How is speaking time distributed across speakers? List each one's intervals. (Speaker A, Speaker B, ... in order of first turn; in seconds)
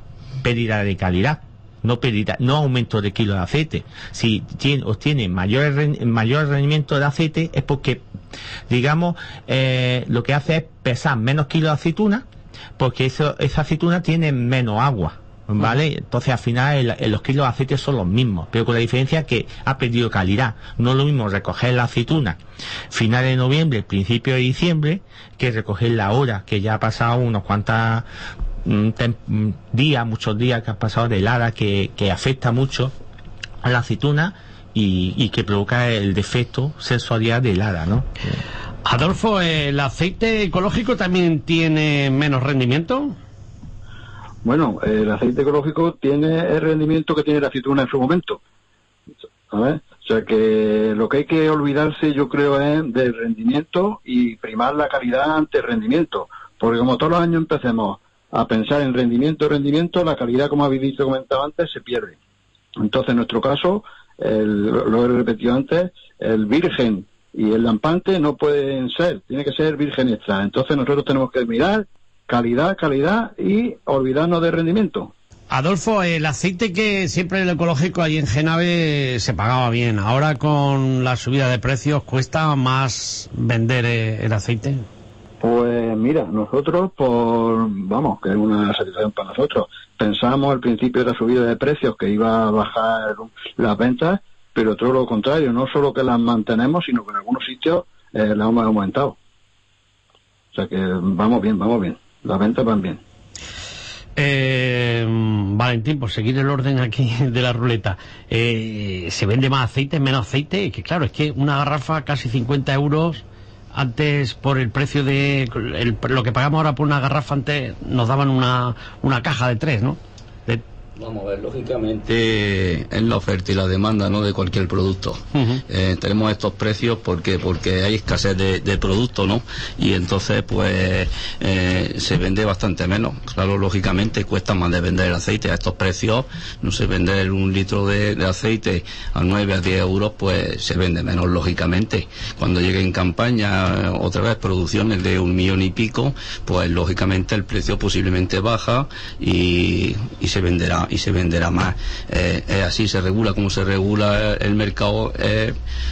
Speaker A: 0.4-8.0, 8.7-12.2, 12.8-22.4, 22.9-28.1, 28.6-32.9, 33.6-38.1
Speaker B: 38.9-43.1, 75.5-84.8, 104.2-120.6, 125.3-125.6
Speaker C: 44.4-48.4, 49.5-62.2, 62.8-75.1, 85.4-99.2, 100.5-103.0
Speaker D: 121.0-155.6